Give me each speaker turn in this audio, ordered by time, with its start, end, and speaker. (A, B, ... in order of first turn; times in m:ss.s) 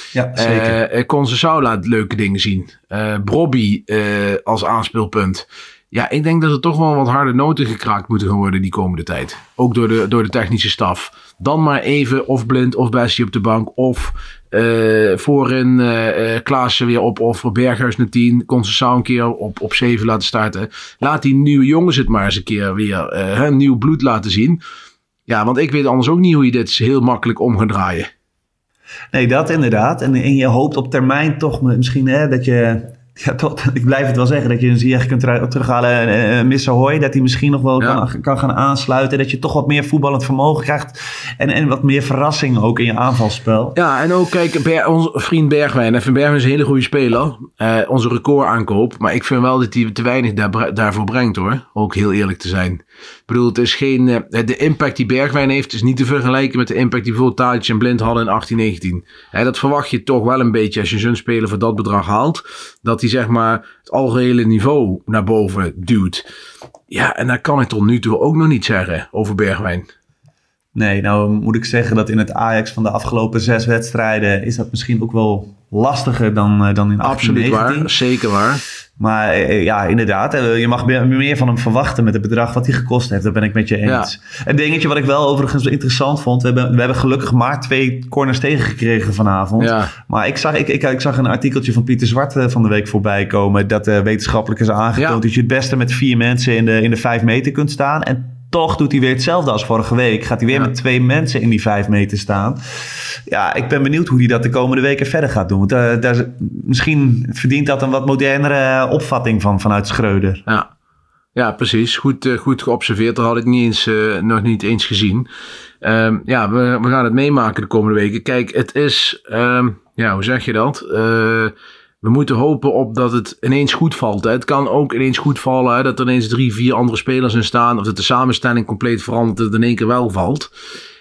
0:00.1-0:00.8 A
0:00.4-0:24.6 B
0:25.3-0:28.1 B
0:29.1-0:43.8 A
0:43.8-1:06.2 B
1:06.9-1:09.9 B
1:10.8-1:17.9 A
1:17.0-1:18.6 B
1:19.0-1:42.6 A
1:29.6-1:29.9 B
1:43.3-1:50.4 A
1:51.4-1:55.3 B
1:55.8-2:10.5 B